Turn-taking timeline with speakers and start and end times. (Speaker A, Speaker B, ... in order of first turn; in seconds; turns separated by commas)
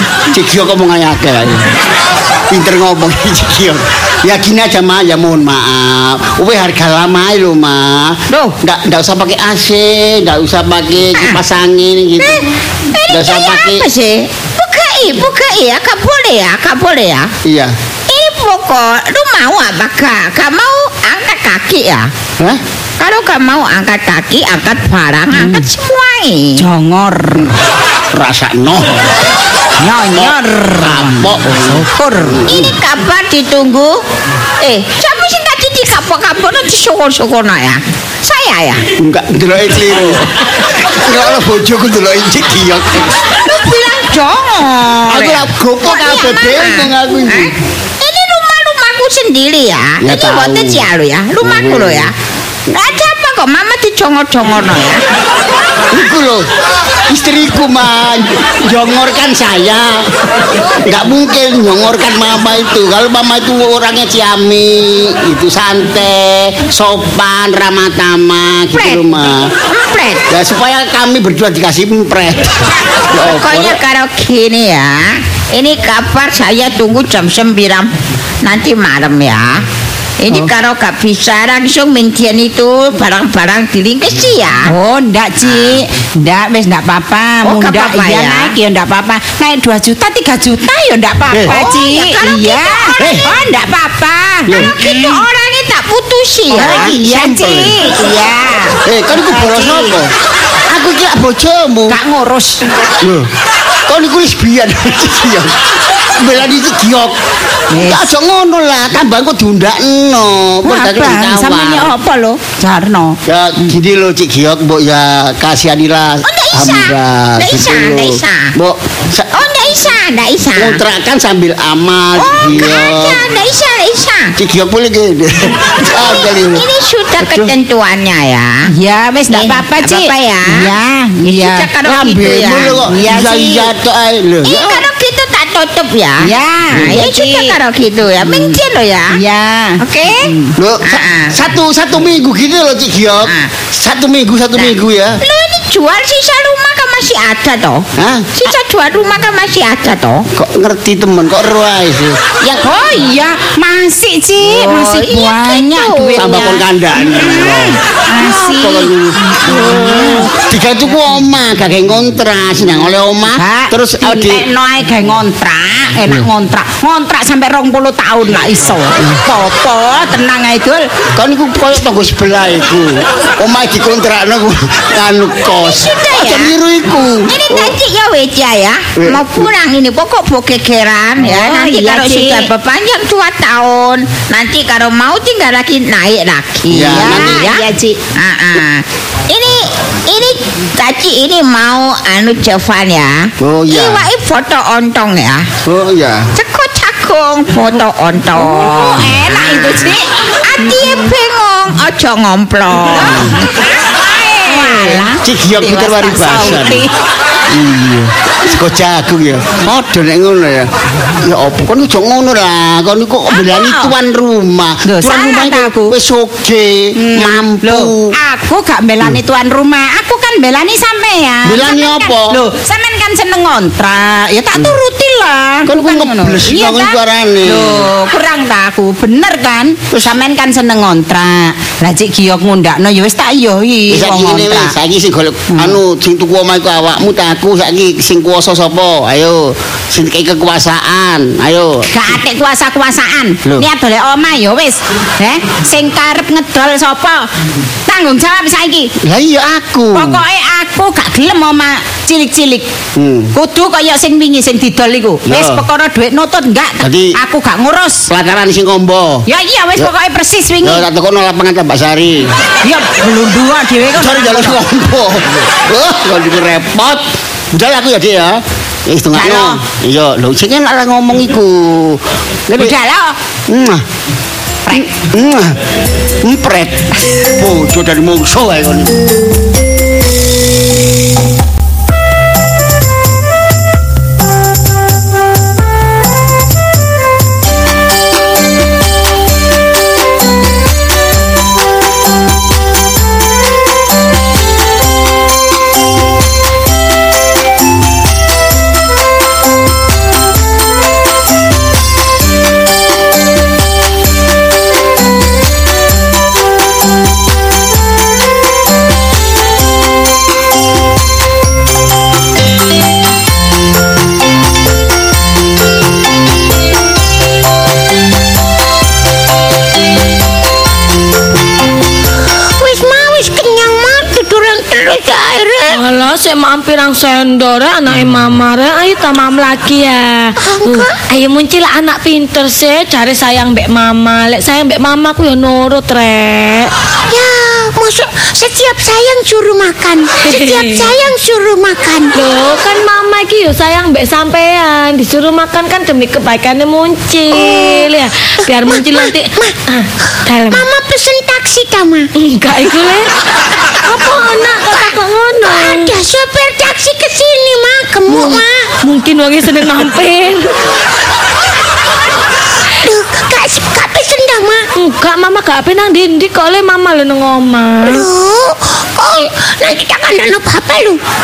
Speaker A: 0.3-1.7, Speaker A: 2.5-12.5, Speaker B: 12.2-17.3, Speaker A: 13.1-13.9, Speaker A: 17.4-17.7, Speaker B: 18.1-22.1, Speaker B: 23.0-26.6, Speaker C: 25.3-25.7, Speaker C: 26.6-27.5, Speaker A: 28.1-28.9, Speaker C: 29.8-32.5, Speaker A: 30.1-32.8, Speaker B: 32.5-34.0, Speaker B: 34.6-38.9, Speaker A: 39.0-40.2, Speaker A: 40.8-43.2, Speaker B: 43.4-52.1, Speaker A: 45.1-47.6, Speaker A: 50.0-50.9, Speaker A: 51.4-52.1, Speaker B: 52.7-55.0, Speaker A: 55.9-56.5, Speaker A: 57.1-60.0, Speaker A: 60.9-69.5, Speaker B: 68.7-69.1, Speaker B: 69.7-70.2, Speaker A: 70.3-73.8, Speaker B: 73.2-79.6, Speaker B: 80.2-84.7, Speaker C: 84.7-95.2, Speaker B: 85.4-85.8, Speaker B: 87.4-88.5, Speaker A: 91.3-91.6, Speaker B: 91.4-93.3, Speaker A: 93.0-93.3, Speaker A: 94.5-94.7, Speaker B: 94.6-97.0, Speaker C: 96.5-99.9, Speaker A: 96.5-97.8, Speaker A: 98.8-100.1, Speaker A: 100.7-102.0, Speaker C: 101.9-102.6, Speaker A: 103.0-103.3, Speaker A: 103.9-105.6, Speaker A: 106.2-107.2, Speaker C: 107.7-108.1, Speaker A: 107.8-111.9, Speaker C: 110.6-113.2, Speaker A: 113.3-119.4, Speaker B: 116.2-118.5, Speaker B: 119.3-120.8, Speaker A: 120.6-123.3, Speaker B: 122.2-124.3, Speaker A: 124.4-126.7, Speaker B: 125.9-128.7, Speaker A: 127.2-127.5, Speaker C: 128.7-131.7, Speaker B: 129.3-130.7, Speaker B: 131.2-133.6, Speaker A: 131.8-134.8, Speaker C: 132.9-133.5, Speaker B: 134.4-139.2, Speaker C: 136.2-137.6, Speaker A: 136.7-137.0, Speaker C: 138.2-138.6, Speaker C: 139.1-140.5, Speaker B: 139.8-141.4, Speaker A: 140.6-145.2, Speaker B: 143.3-143.5, Speaker B: 144.6-150.3, Speaker A: 148.0-148.5, Speaker A: 150.3-152.2, Speaker B: 152.4-152.9, Speaker C: 152.6-160.3, Speaker B: 154.4-156.5, Speaker A: 156.2-164.5, Speaker C: 163.3-170.9, Speaker A: 171.2-177.8, Speaker B: 175.5-176.5, Speaker B: 177.3-195.5, Speaker A: 179.0-179.5, Speaker C: 181.2-182.5, Speaker A: 186.7-187.5, Speaker C: 186.8-188.0, Speaker A: 193.4-194.1, Speaker A: 195.6-196.3, Speaker B: 196.4-203.4, Speaker C: 198.3-200.1, Speaker C: 200.7-201.0, Speaker C: 202.9-203.3, Speaker A: 203.0-203.3, Speaker B: 204.1-205.0, Speaker C: 204.1-206.9, Speaker A: 205.2-206.9, Speaker A: 207.5-210.7, Speaker A: 211.2-218.1, Speaker C: 213.3-213.9, Speaker C: 214.8-215.9, Speaker C: 216.9-234.7, Speaker A: 221.4-222.4, Speaker A: 225.7-227.9, Speaker A: 233.9-241.9, Speaker C: 241.9-247.3, Speaker C: 247.9-248.9, Speaker A: 249.0-250.2, Speaker C: 249.9-252.7, Speaker A: 253.0-253.3, Speaker C: 253.3-258.1, Speaker A: 255.3-255.6, Speaker A: 256.8-257.1, Speaker A: 258.1-259.2, Speaker C: 259.3-260.9, Speaker A: 260.6-262.3, Speaker C: 262.6-264.6, Speaker A: 264.0-272.8, Speaker C: 269.1-269.6, Speaker C: 272.6-273.2, Speaker A: 273.5-273.8, Speaker A: 274.7-275.6, Speaker A: 276.2-279.0, Speaker D: 322.6-325.8, Speaker E: 325.7-336.7, Speaker D: 330.4-331.0, Speaker D: 337.1-342.1, Speaker E: 340.2-341.0, Speaker E: 342.1-350.6, Speaker D: 347.3-347.9, Speaker D: 348.4-349.6, Speaker D: 350.5-352.1, Speaker E: 352.2-353.1, Speaker E: 353.8-355.9, Speaker D: 354.7-358.7, Speaker E: 358.1-360.5, Speaker D: 362.8-364.7, Speaker E: 364.8-368.1, Speaker D: 367.8-371.0